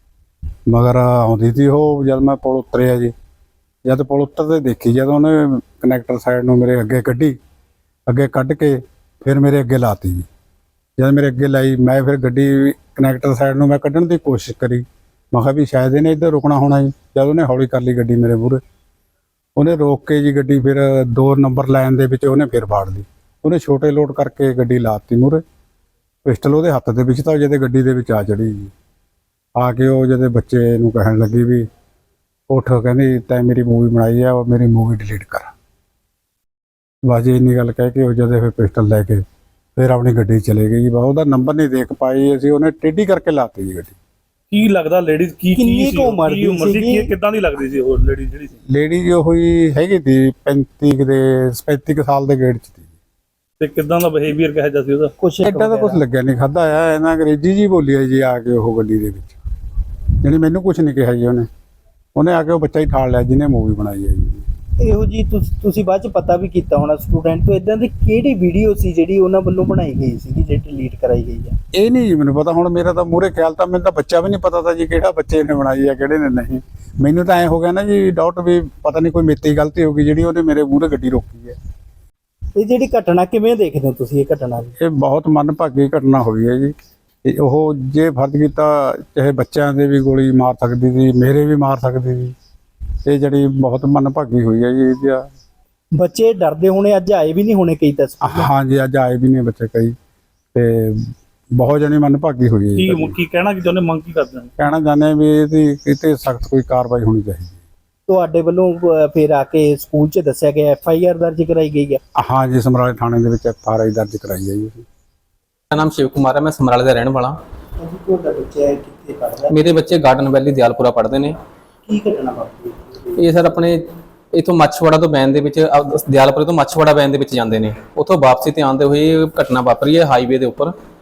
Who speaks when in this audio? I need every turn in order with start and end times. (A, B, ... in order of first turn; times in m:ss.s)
0:00.7-0:03.1 A
0:03.8-0:07.4 A
0:08.1-0:10.3 A
0:11.0-0:18.6 A
0:19.6-0:25.4 A
0:26.2-0:28.7 A
0:29.6-0:31.7 A
0:32.5-0:35.5 A
0:37.0-0:39.2 A
0:39.8-0:44.0 A
0:44.5-0:48.5 B
0:45.6-0:47.1 C
0:48.7-0:52.9 A
0:53.6-0:55.1 B
0:55.2-0:56.0 C
0:55.4-0:59.4 A
1:00.2-1:01.5 A
1:02.1-1:04.5 A
1:04.8-1:11.6 C
1:11.7-1:21.6 A
1:22.5-1:24.7 C
1:24.8-1:32.3 A
1:33.0-1:35.3 A
1:35.9-1:38.5 C
1:38.2-1:40.0 A
1:40.5-1:43.1 A
1:42.8-1:44.5 B
1:44.6-1:47.6 A
1:48.1-1:52.0 C
1:52.2-1:54.8 A
1:55.7-1:57.4 D
1:57.8-1:59.6 C
1:59.5-2:01.4 D
2:01.8-2:03.3 C
2:03.2-2:03.8 D
2:04.3-2:10.7 D